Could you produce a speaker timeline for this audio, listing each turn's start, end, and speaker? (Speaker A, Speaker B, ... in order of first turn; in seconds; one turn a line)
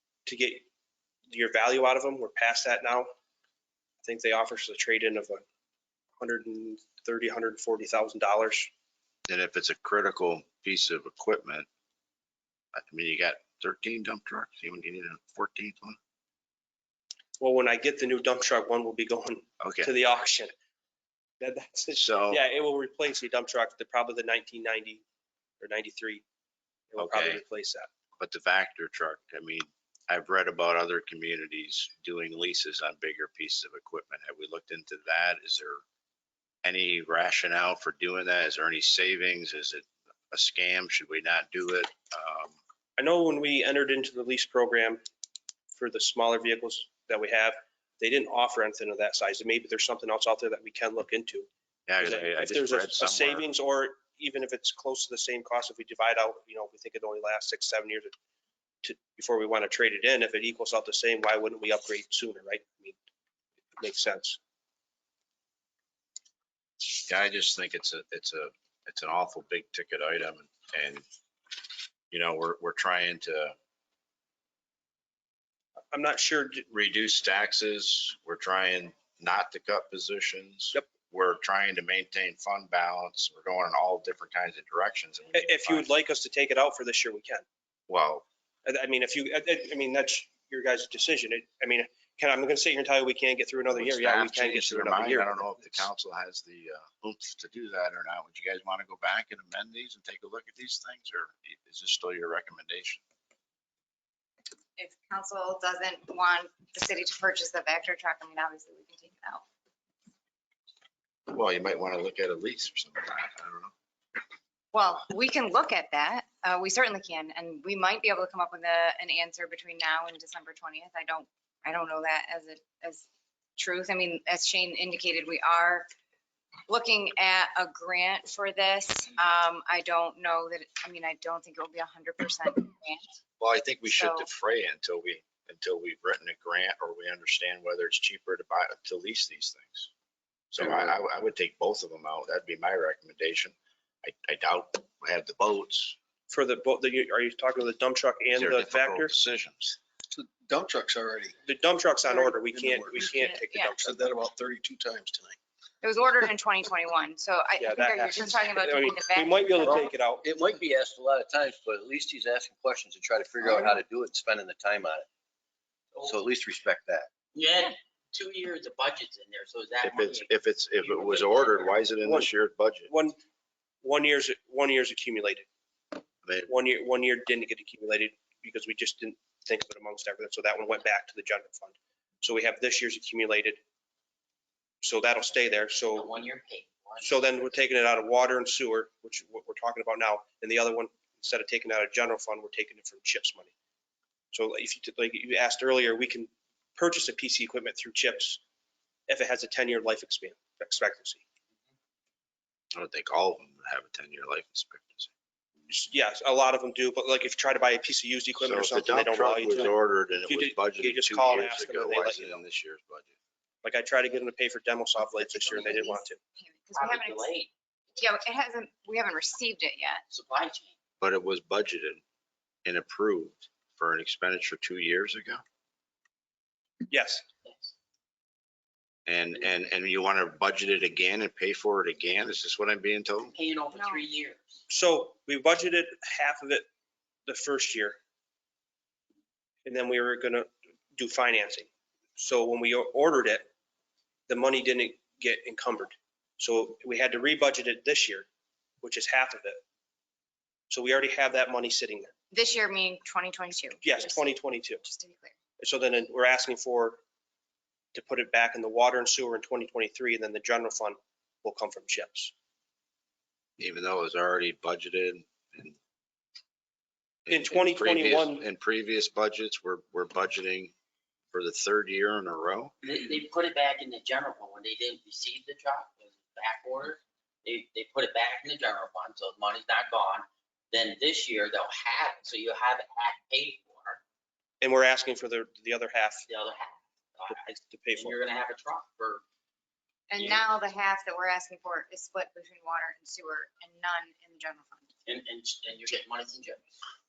Speaker A: 0.2-0.7
Speaker A: 1.3-3.1
Speaker A: 4.0-5.4
Speaker A: 6.2-8.7
Speaker B: 9.3-11.7
Speaker B: 12.7-16.0
Speaker A: 17.4-20.5
Speaker B: 19.6-19.9
Speaker A: 21.4-25.0
Speaker B: 21.9-22.4
Speaker A: 25.6-26.2
Speaker A: 26.9-27.9
Speaker B: 27.0-27.4
Speaker B: 28.2-35.8
Speaker B: 36.6-42.6
Speaker A: 43.0-45.0
Speaker A: 45.7-51.5
Speaker B: 51.9-53.4
Speaker A: 52.0-58.1
Speaker A: 58.8-63.0
Speaker A: 63.8-64.4
Speaker B: 66.9-71.0
Speaker B: 72.1-73.5
Speaker A: 75.9-76.7
Speaker B: 76.7-85.9
Speaker A: 85.3-87.4
Speaker B: 87.9-88.2
Speaker A: 88.6-95.8
Speaker B: 93.7-103.0
Speaker C: 104.8-109.4
Speaker B: 111.3-113.7
Speaker C: 114.7-123.0
Speaker C: 123.6-125.8
Speaker C: 126.7-133.2
Speaker B: 133.4-139.9
Speaker C: 133.8-134.3
Speaker B: 140.5-145.9
Speaker A: 146.3-149.1
Speaker B: 148.3-149.8
Speaker D: 150.1-151.3
Speaker A: 151.4-154.0
Speaker D: 152.5-155.4
Speaker C: 153.1-153.7
Speaker C: 155.8-159.9
Speaker A: 157.6-160.2
Speaker E: 159.6-165.1
Speaker E: 166.0-167.1
Speaker F: 167.3-171.8
Speaker B: 169.8-172.9
Speaker A: 172.9-173.2
Speaker A: 173.8-175.5
Speaker B: 176.2-176.5
Speaker A: 176.5-183.6
Speaker A: 184.8-186.1
Speaker F: 185.9-187.2
Speaker A: 187.0-193.5
Speaker A: 194.3-198.4
Speaker A: 199.1-201.2
Speaker B: 202.7-205.1
Speaker A: 205.7-209.7
Speaker B: 208.4-213.1
Speaker A: 210.3-212.4
Speaker A: 213.6-216.2
Speaker F: 215.0-215.8
Speaker C: 215.6-217.3
Speaker F: 216.7-217.5
Speaker C: 217.9-220.0
Speaker F: 220.1-220.7
Speaker B: 221.0-222.0
Speaker B: 222.6-225.4
Speaker A: 226.9-227.2
Speaker F: 227.4-227.7
Speaker B: 229.1-233.3
Speaker F: 233.3-234.6
Speaker C: 233.7-234.1
Speaker A: 234.7-236.6
Speaker A: 237.2-238.0
Speaker A: 239.6-243.5
Speaker A: 244.3-248.2
Speaker A: 248.8-249.6
Speaker A: 250.7-252.1
Speaker C: 252.3-255.3
Speaker A: 253.8-254.8
Speaker A: 255.6-257.0
Speaker A: 257.9-262.3
Speaker B: 263.6-265.8
Speaker B: 267.2-270.7
Speaker A: 267.3-268.4
Speaker B: 271.3-272.7
Speaker F: 272.8-284.0
Speaker A: 284.6-286.2
Speaker F: 286.3-289.2
Speaker A: 287.3-288.2
Speaker C: 290.1-294.9
Speaker F: 290.2-290.4
Speaker F: 295.1-296.6